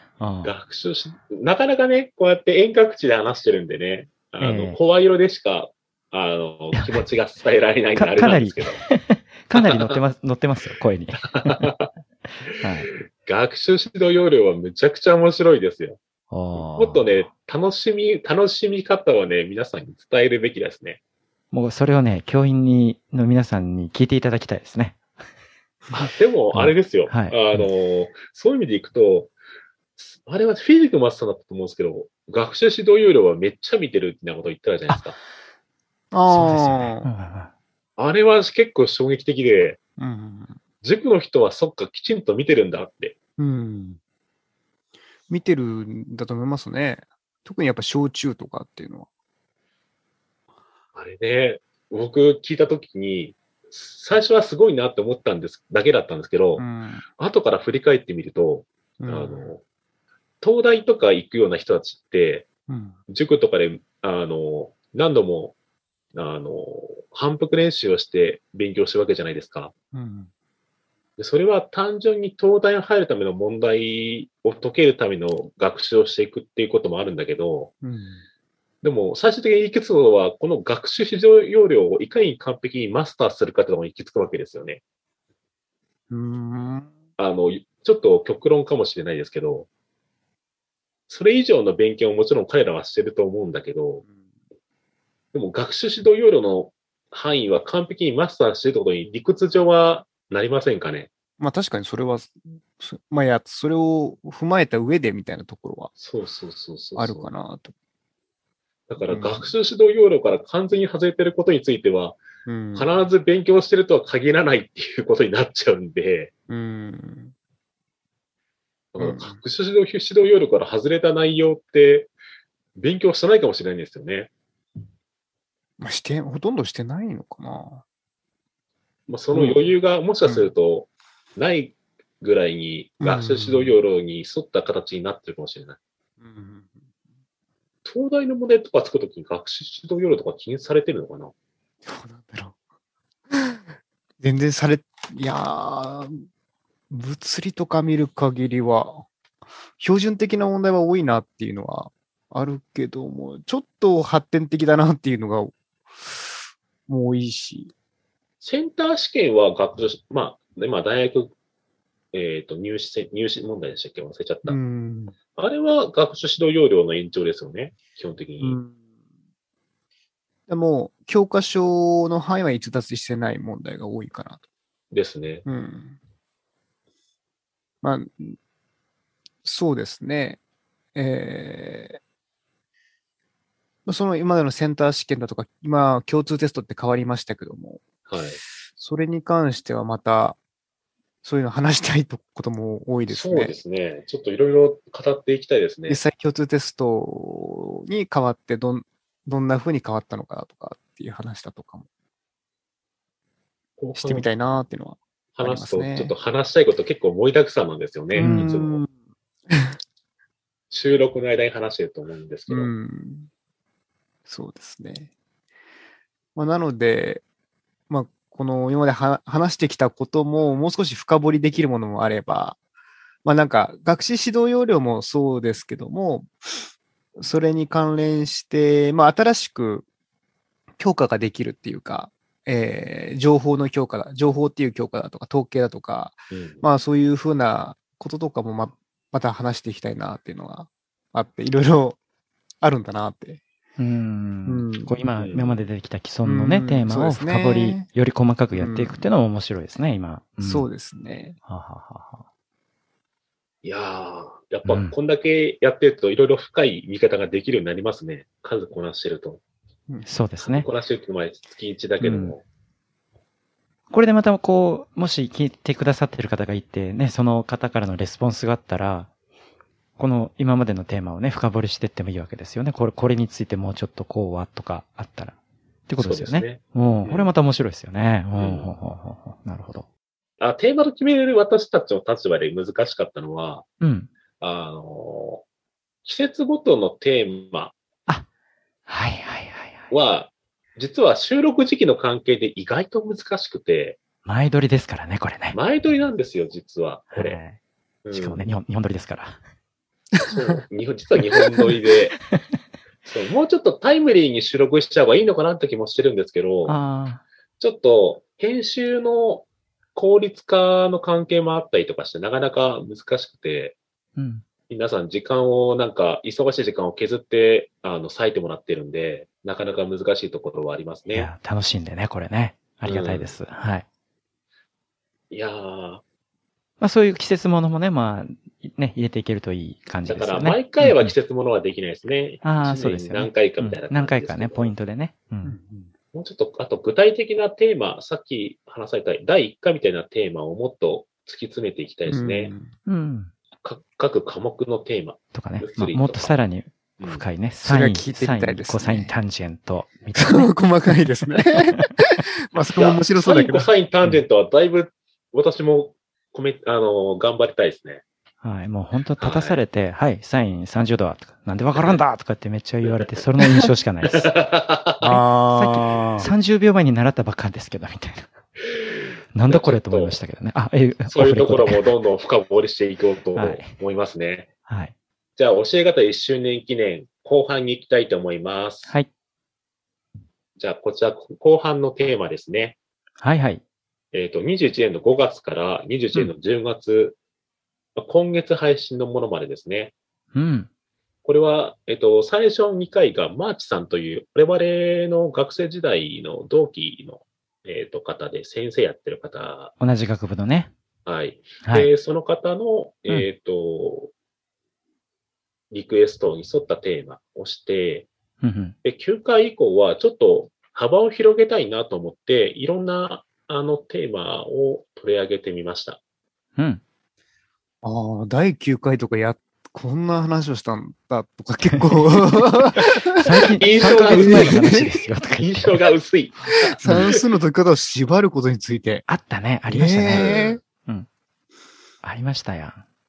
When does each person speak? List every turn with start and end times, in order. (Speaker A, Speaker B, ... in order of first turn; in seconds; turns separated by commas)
Speaker A: 0.2-0.5, Speaker B: 0.4-8.8, Speaker A: 4.4-4.8, Speaker A: 6.7-7.0, Speaker A: 8.0-11.7, Speaker B: 9.6-10.0, Speaker B: 11.3-11.9, Speaker B: 12.5-16.0, Speaker A: 12.6-12.9, Speaker A: 16.3-17.1, Speaker B: 16.6-21.0, Speaker A: 21.5-25.0, Speaker B: 25.9-29.3, Speaker A: 26.5-27.7, Speaker B: 30.0-35.2, Speaker C: 36.1-37.1, Speaker A: 36.3-37.5, Speaker B: 38.0-39.8, Speaker C: 40.0-40.6, Speaker B: 40.8-43.1, Speaker C: 43.4-44.0, Speaker C: 45.3-49.1, Speaker B: 51.0-56.6, Speaker C: 56.6-57.0, Speaker B: 57.2-59.6, Speaker C: 59.0-59.5, Speaker B: 60.4-62.5, Speaker C: 62.7-63.0, Speaker B: 63.1-65.5, Speaker B: 66.1-69.7, Speaker C: 69.9-70.3, Speaker B: 71.2-77.7, Speaker C: 77.8-78.2, Speaker B: 78.8-84.8, Speaker C: 86.1-86.9, Speaker B: 87.2-89.7, Speaker B: 91.1-94.0, Speaker B: 95.3-101.1, Speaker C: 101.4-105.9, Speaker B: 106.0-107.3, Speaker C: 107.0-107.7, Speaker B: 108.9-112.2, Speaker C: 109.0-109.5, Speaker C: 112.5-112.9, Speaker B: 112.7-116.3, Speaker C: 116.5-117.3, Speaker B: 118.9-122.1, Speaker C: 119.0-119.4, Speaker B: 122.8-124.3, Speaker C: 125.8-127.8, Speaker B: 129.1-135.8, Speaker C: 129.3-129.7, Speaker C: 130.2-130.5, Speaker C: 133.0-133.8, Speaker C: 136.2-136.8, Speaker B: 137.8-141.3, Speaker C: 141.8-142.6, Speaker C: 143.3-143.6, Speaker C: 144.2-146.2, Speaker C: 146.9-149.1, Speaker C: 149.8-157.7, Speaker B: 158.4-161.3, Speaker B: 162.1-164.6, Speaker C: 164.5-165.2, Speaker B: 165.3-168.6, Speaker C: 168.4-168.8, Speaker C: 170.5-174.4, Speaker B: 174.9-175.4, Speaker C: 175.4-176.0, Speaker C: 177.8-178.4, Speaker C: 179.4-180.4, Speaker C: 180.9-182.0, Speaker C: 183.9-187.9, Speaker B: 188.1-188.4, Speaker C: 188.7-190.4, Speaker C: 191.2-193.6, Speaker B: 193.1-196.0, Speaker C: 195.9-201.9, Speaker B: 203.8-204.3, Speaker C: 204.0-206.1, Speaker B: 205.4-208.8, Speaker C: 208.2-208.9, Speaker A: 208.2-208.5, Speaker C: 209.5-209.8, Speaker B: 210.7-212.7, Speaker C: 212.5-213.3, Speaker C: 214.3-215.1, Speaker C: 216.3-217.2, Speaker C: 217.9-222.6, Speaker C: 223.2-229.9, Speaker C: 230.8-242.0, Speaker B: 236.3-236.6, Speaker C: 242.6-243.4, Speaker A: 243.8-250.7, Speaker C: 244.5-244.9, Speaker B: 245.2-245.6, Speaker C: 246.2-247.9, Speaker C: 248.5-249.1, Speaker C: 250.4-251.4, Speaker A: 251.4-252.2, Speaker B: 253.6-259.4, Speaker A: 254.7-255.0, Speaker A: 260.1-260.7, Speaker B: 260.4-262.4, Speaker A: 262.0-262.4, Speaker A: 263.9-269.1, Speaker A: 270.0-275.4, Speaker A: 275.9-279.9, Speaker B: 276.0-277.3, Speaker B: 278.4-278.7, Speaker B: 280.4-283.6, Speaker A: 283.8-284.1, Speaker B: 284.4-285.4, Speaker B: 286.1-287.7, Speaker A: 288.9-289.9, Speaker B: 289.9-294.0, Speaker A: 294.2-295.6, Speaker B: 295.5-297.4, Speaker A: 297.1-297.6, Speaker B: 298.1-298.5, Speaker A: 298.1-299.4, Speaker B: 300.2-302.2, Speaker B: 303.1-306.8, Speaker A: 306.7-307.2, Speaker B: 307.6-313.8, Speaker A: 314.2-314.4, Speaker B: 314.7-321.3, Speaker A: 321.1-323.9, Speaker B: 322.9-323.3, Speaker B: 325.3-326.0, Speaker A: 326.8-331.1, Speaker B: 330.1-334.7, Speaker A: 332.4-335.6, Speaker C: 335.4-335.9, Speaker B: 336.1-342.5, Speaker C: 342.1-342.7, Speaker A: 342.9-343.3, Speaker B: 343.6-346.3, Speaker A: 345.3-350.5, Speaker B: 347.0-347.2, Speaker C: 347.6-349.1, Speaker C: 350.2-353.7, Speaker A: 351.6-351.9, Speaker B: 352.7-358.0, Speaker A: 358.4-364.3, Speaker B: 359.2-359.6, Speaker B: 362.9-363.2, Speaker B: 364.0-365.0, Speaker C: 365.0-366.3, Speaker A: 365.0-368.3, Speaker B: 368.6-370.2, Speaker A: 369.3-372.0, Speaker B: 371.1-374.5, Speaker A: 373.4-373.7, Speaker A: 374.7-374.9, Speaker B: 375.4-378.9, Speaker B: 380.6-382.8, Speaker A: 383.2-383.6, Speaker B: 384.1-387.2, Speaker B: 388.0-389.9, Speaker A: 390.3-390.7, Speaker B: 391.2-399.7, Speaker A: 399.8-400.7, Speaker B: 401.1-404.1, Speaker A: 401.6-401.9, Speaker B: 405.7-408.1, Speaker A: 408.4-408.8, Speaker B: 408.8-416.0, Speaker A: 416.6-416.8, Speaker C: 417.8-425.0, Speaker A: 421.7-422.2, Speaker A: 423.1-425.9, Speaker B: 423.6-424.9, Speaker B: 425.4-427.2, Speaker C: 426.6-429.1, Speaker A: 426.9-427.1, Speaker A: 429.1-431.1, Speaker C: 429.7-430.6, Speaker B: 430.1-430.6, Speaker A: 432.0-432.8